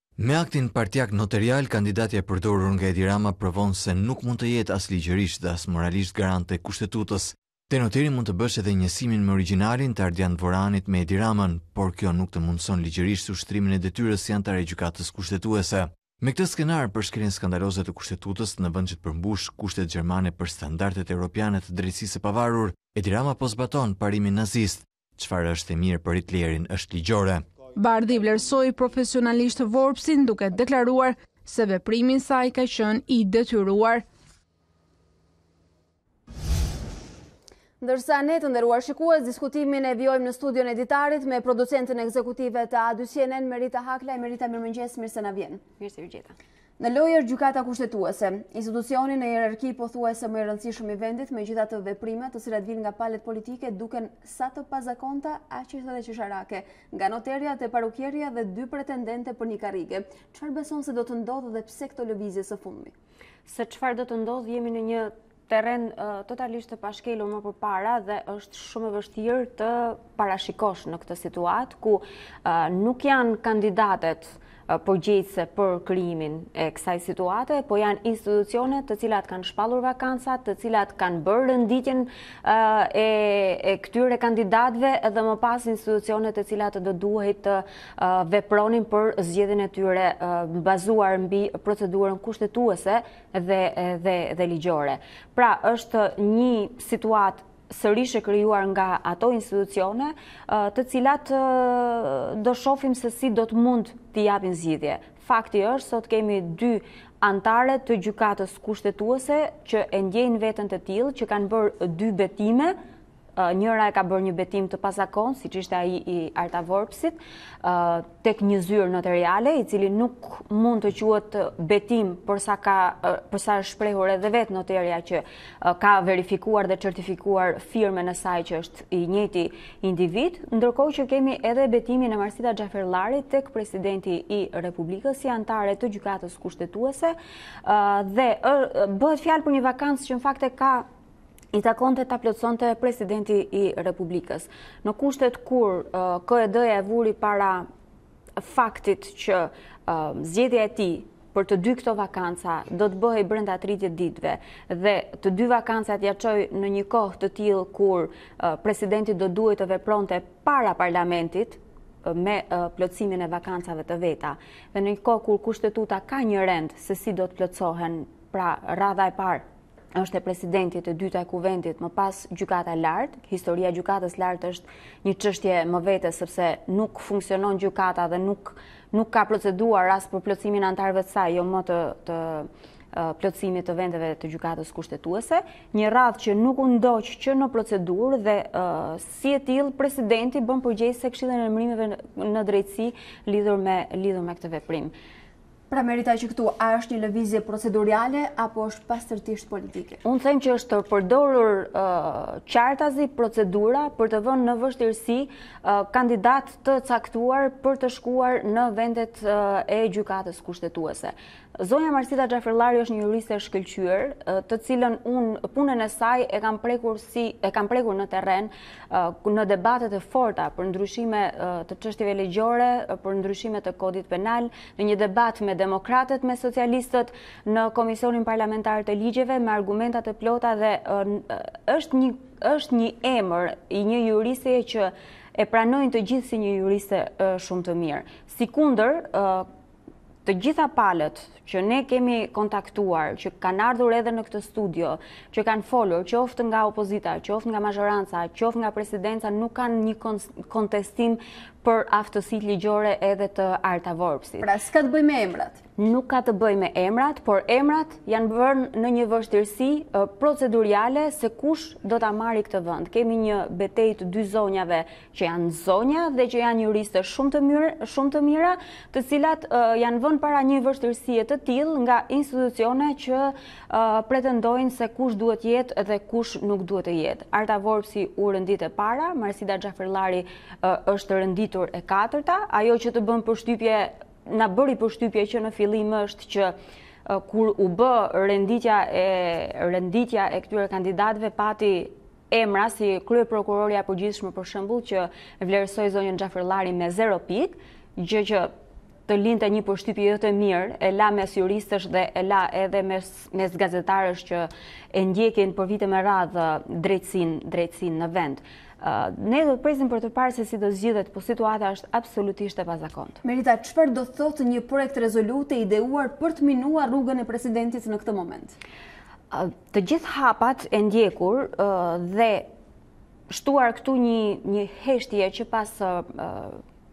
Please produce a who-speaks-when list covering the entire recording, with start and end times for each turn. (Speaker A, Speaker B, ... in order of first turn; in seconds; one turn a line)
Speaker A: 0.2-27.5
Speaker B: 27.8-34.0
Speaker C: 37.8-45.6
Speaker D: 45.8-46.3
Speaker C: 46.8-62.9
Speaker D: 63.5-112.8
Speaker D: 113.4-140.8
Speaker D: 141.5-147.7
Speaker D: 148.4-194.9
Speaker C: 195.7-200.0
Speaker D: 200.0-239.5
Speaker D: 240.2-254.5
Speaker C: 254.4-255.6
Speaker D: 255.8-286.5
Speaker D: 287.1-298.5
Speaker D: 299.1-313.2
Speaker C: 313.2-318.5
Speaker D: 319.3-322.5
Speaker D: 323.3-326.6